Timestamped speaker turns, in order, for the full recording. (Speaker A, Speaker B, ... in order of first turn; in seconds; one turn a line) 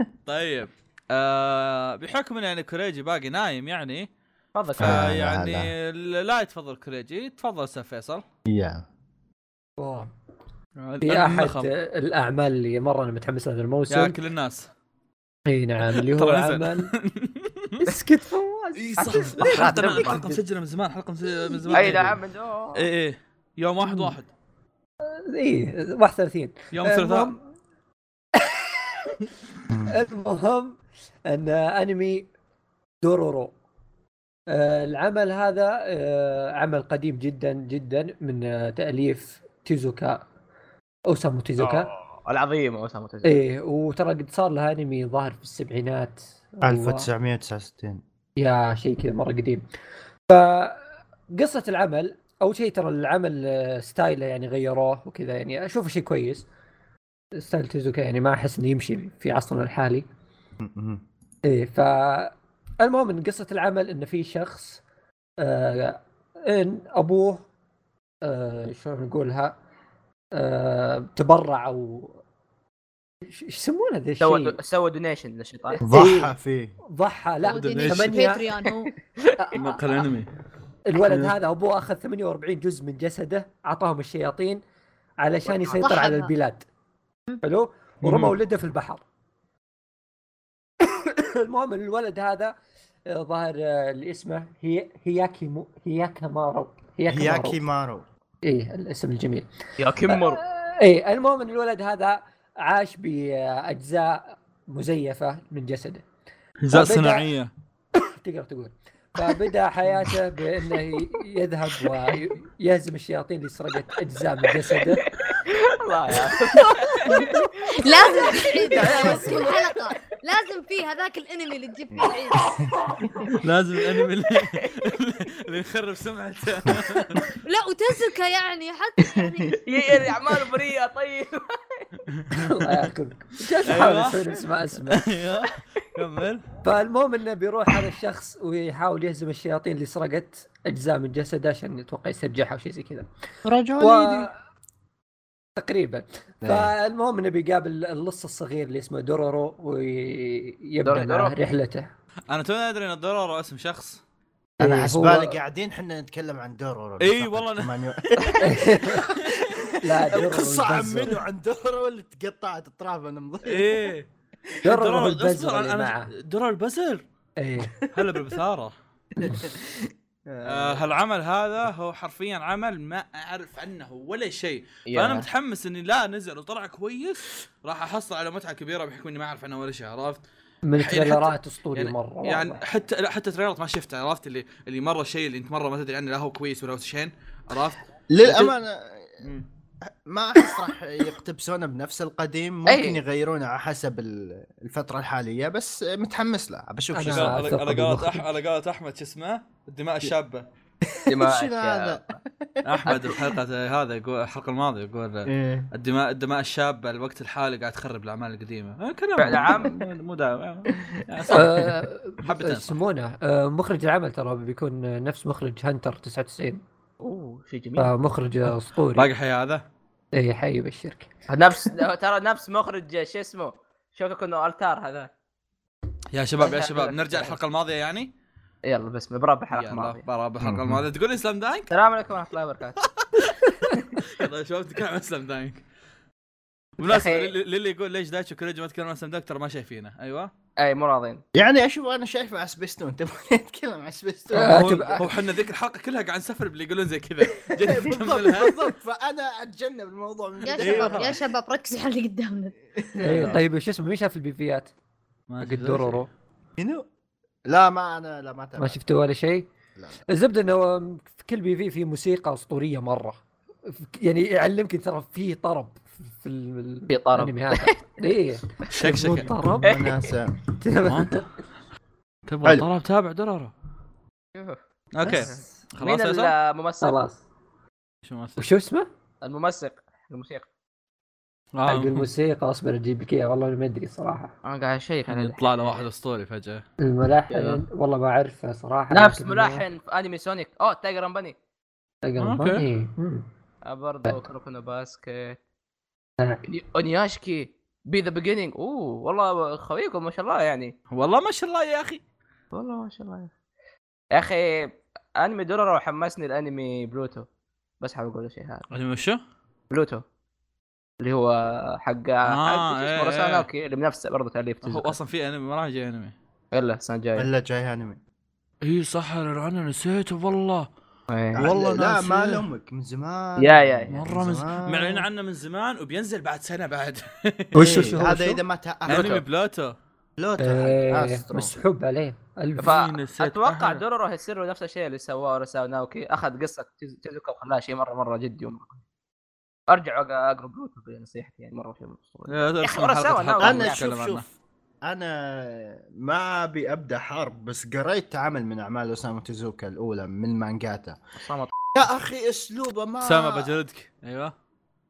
Speaker A: 0.3-4.1
Speaker B: 4.5-5.1
Speaker C: 4.8-5.7
Speaker A: 4.8-8.2
Speaker C: 8.5-8.8
Speaker D: 9.8-10.1
Speaker A: 10.8-11.7
Speaker D: 11.0-14.2
Speaker A: 13.9-14.7
Speaker D: 15.5-16.9
Speaker A: 15.9-17.8
Speaker D: 17.9-20.4
Speaker A: 18.8-22.2
Speaker B: 19.0-20.2
Speaker D: 21.4-22.1
Speaker B: 21.7-22.9
Speaker A: 22.7-24.3
Speaker D: 23.8-24.1
Speaker D: 25.0-27.4
Speaker A: 26.7-27.3
Speaker D: 28.3-29.2
Speaker C: 29.7-30.0
Speaker D: 29.9-32.3
Speaker D: 33.0-33.5
Speaker D: 34.5-40.2
Speaker D: 41.1-41.9
Speaker B: 41.6-43.4
Speaker D: 43.2-47.1
Speaker C: 46.6-48.0
Speaker D: 48.4-49.6
Speaker D: 50.3-56.5
Speaker D: 57.4-60.0
Speaker C: 60.6-61.0
Speaker D: 61.5-64.8
Speaker D: 65.4-67.5
Speaker D: 68.2-69.5
Speaker D: 70.3-72.2
Speaker D: 73.2-74.6
Speaker B: 74.2-75.8
Speaker D: 75.8-76.3
Speaker C: 75.8-76.8
Speaker D: 76.9-78.5
Speaker E: 77.4-78.9
Speaker A: 77.6-78.2
Speaker B: 79.1-79.4
Speaker D: 79.4-79.8
Speaker A: 79.5-80.3
Speaker D: 80.8-84.6
Speaker D: 85.2-86.6
Speaker E: 85.8-86.3
Speaker D: 87.4-89.0
Speaker A: 88.0-88.3
Speaker D: 90.8-92.5
Speaker D: 93.1-97.6
Speaker C: 97.1-98.0
Speaker D: 98.4-99.5
Speaker B: 99.8-100.4
Speaker D: 100.1-106.0
Speaker A: 106.6-107.5
Speaker D: 106.7-107.3
Speaker D: 107.9-115.0
Speaker B: 114.7-119.9
Speaker D: 117.0-117.4
Speaker E: 117.1-122.5
Speaker D: 118.8-119.2
Speaker C: 122.4-123.4
Speaker A: 123.3-127.3
Speaker E: 127.4-129.6
Speaker C: 129.1-129.5
Speaker B: 129.6-131.9
Speaker A: 132.1-132.7
Speaker D: 132.4-135.1
Speaker A: 133.6-134.2
Speaker A: 134.9-136.4
Speaker D: 136.6-143.1
Speaker C: 143.4-144.3
Speaker D: 143.8-144.3
Speaker D: 145.6-151.9
Speaker C: 146.4-146.7
Speaker B: 150.8-151.3
Speaker A: 152.3-154.0
Speaker C: 154.6-163.9
Speaker D: 154.6-155.3
Speaker A: 157.0-158.4
Speaker D: 158.4-159.2
Speaker D: 159.8-161.2
Speaker A: 163.4-164.1
Speaker D: 164.6-166.1
Speaker A: 164.7-167.0
Speaker D: 167.4-167.7
Speaker C: 167.7-168.0
Speaker A: 167.9-168.7
Speaker C: 169.2-170.8
Speaker A: 170.4-180.2
Speaker B: 174.9-175.3
Speaker D: 180.6-182.6
Speaker A: 180.8-188.5
Speaker C: 188.1-189.2
Speaker C: 190.1-197.5
Speaker B: 192.7-193.0
Speaker D: 196.9-198.2
Speaker A: 197.1-200.4
Speaker C: 200.8-203.3
Speaker B: 201.1-202.2
Speaker A: 202.6-211.6
Speaker B: 202.9-203.2
Speaker C: 205.2-205.7
Speaker B: 209.2-209.8
Speaker D: 211.3-216.6
Speaker A: 212.2-212.7
Speaker B: 217.0-217.9
Speaker D: 217.8-219.1
Speaker A: 218.9-219.6
Speaker D: 220.1-221.1
Speaker B: 221.3-225.1
Speaker A: 226.1-228.1
Speaker B: 226.4-227.4
Speaker B: 228.7-230.0
Speaker A: 229.5-231.7
Speaker C: 230.4-230.8
Speaker B: 231.7-232.8
Speaker A: 232.8-235.6
Speaker B: 233.7-233.9
Speaker A: 236.8-240.3
Speaker B: 236.8-237.3
Speaker B: 240.6-241.2
Speaker C: 241.3-245.1
Speaker D: 244.3-245.0
Speaker A: 244.3-248.7
Speaker C: 247.6-251.2
Speaker E: 250.4-252.5
Speaker A: 250.5-251.2
Speaker C: 252.7-253.4
Speaker D: 253.0-254.7
Speaker A: 253.1-253.4
Speaker A: 255.3-256.0
Speaker D: 255.4-256.1
Speaker C: 256.6-256.8
Speaker C: 257.5-258.8
Speaker D: 258.6-259.5
Speaker C: 259.8-260.0
Speaker D: 260.1-269.8
Speaker B: 266.9-268.0
Speaker A: 268.7-269.3
Speaker C: 268.8-270.4
Speaker B: 269.6-270.1
Speaker D: 270.6-271.2
Speaker A: 270.8-271.3
Speaker A: 272.3-273.5
Speaker B: 274.3-277.0
Speaker A: 274.9-276.3
Speaker D: 276.8-277.2
Speaker A: 278.0-278.5
Speaker D: 278.4-278.9
Speaker B: 279.2-280.5
Speaker A: 281.5-282.1
Speaker D: 281.7-284.3
Speaker B: 284.4-285.8
Speaker A: 285.1-286.6
Speaker D: 286.8-289.6
Speaker B: 287.3-287.6
Speaker B: 288.9-291.4
Speaker D: 292.0-293.2
Speaker A: 292.2-292.6
Speaker B: 293.6-295.4
Speaker B: 296.5-300.7
Speaker A: 300.9-302.0
Speaker B: 302.5-303.3
Speaker B: 304.1-307.3
Speaker B: 307.8-308.6
Speaker A: 308.7-309.2
Speaker B: 309.7-310.0
Speaker B: 311.0-315.0
Speaker A: 312.2-313.5
Speaker A: 314.6-316.1
Speaker B: 316.5-317.3
Speaker C: 317.2-318.0
Speaker A: 318.6-320.7
Speaker B: 321.1-321.4
Speaker C: 321.3-325.0
Speaker A: 321.4-322.4
Speaker B: 323.4-323.9
Speaker A: 323.9-327.8
Speaker D: 327.5-328.4
Speaker C: 327.6-329.2
Speaker A: 328.9-329.8
Speaker C: 330.2-331.6
Speaker D: 330.4-332.8
Speaker B: 332.6-338.8
Speaker A: 332.6-333.8
Speaker B: 339.7-343.9
Speaker A: 342.3-344.2
Speaker C: 343.4-344.2
Speaker C: 344.8-351.0
Speaker B: 351.2-351.5
Speaker C: 351.7-353.5
Speaker A: 353.0-354.3